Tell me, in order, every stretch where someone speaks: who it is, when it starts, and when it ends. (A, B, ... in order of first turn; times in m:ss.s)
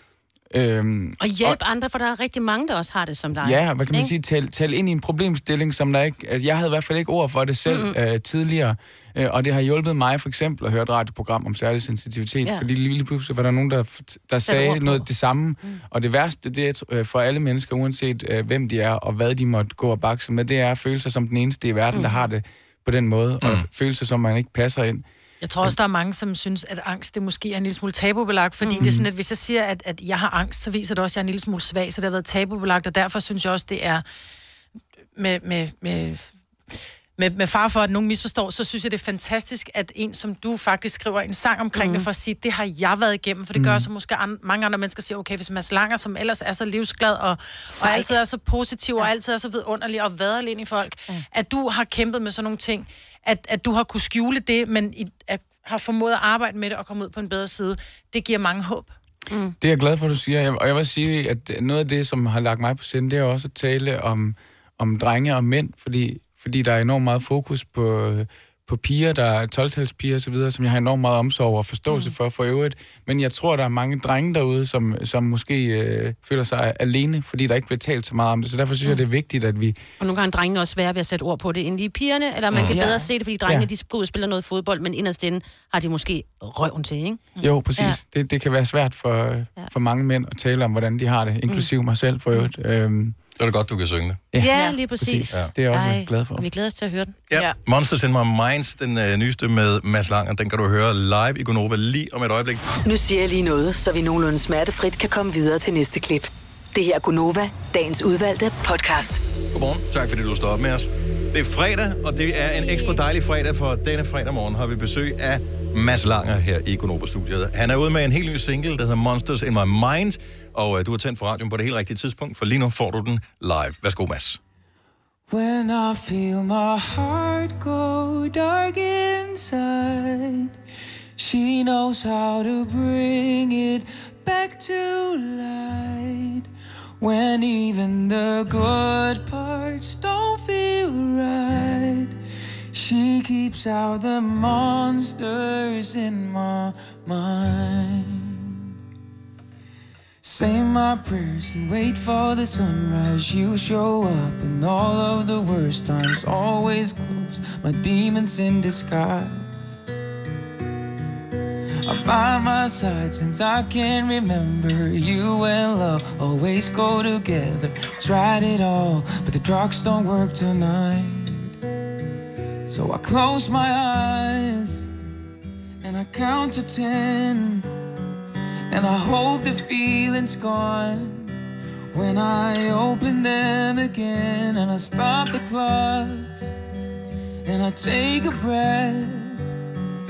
0:00.5-0:01.6 A
0:01.2-0:04.1 B
0:03.4-0:25.0 A
0:07.7-0:08.0 B
0:14.5-0:15.1 B
0:21.9-0:22.3 B
0:23.4-0:23.7 C
0:25.4-0:34.0 D
0:28.6-0:28.9 B
0:28.8-0:29.1 A
0:35.2-0:36.3 D
0:37.2-0:58.9 D
0:41.7-0:42.1 B
0:43.5-0:43.9 A
0:47.7-0:48.2 B
0:59.3-0:59.5 B
0:59.6-1:19.8 A
1:11.9-1:12.1 B
1:20.0-1:28.0 B
1:22.5-1:22.8 C
1:22.7-1:23.7 A
1:27.4-1:33.2 A
1:33.4-1:34.2 C
1:34.3-1:36.4 A
1:34.4-1:37.1 B
1:37.3-1:42.6 C
1:42.8-1:49.2 E
1:49.5-2:04.4 C
2:05.3-2:10.5 F
2:11.2-2:16.5 F
2:17.0-2:22.1 F
2:22.7-2:28.6 F
2:30.2-2:39.8 F
2:41.8-2:51.5 F
2:52.7-2:54.9 F
2:55.8-2:57.7 F
2:58.7-3:01.3 F
3:01.9-3:06.5 F
3:07.4-3:09.4 F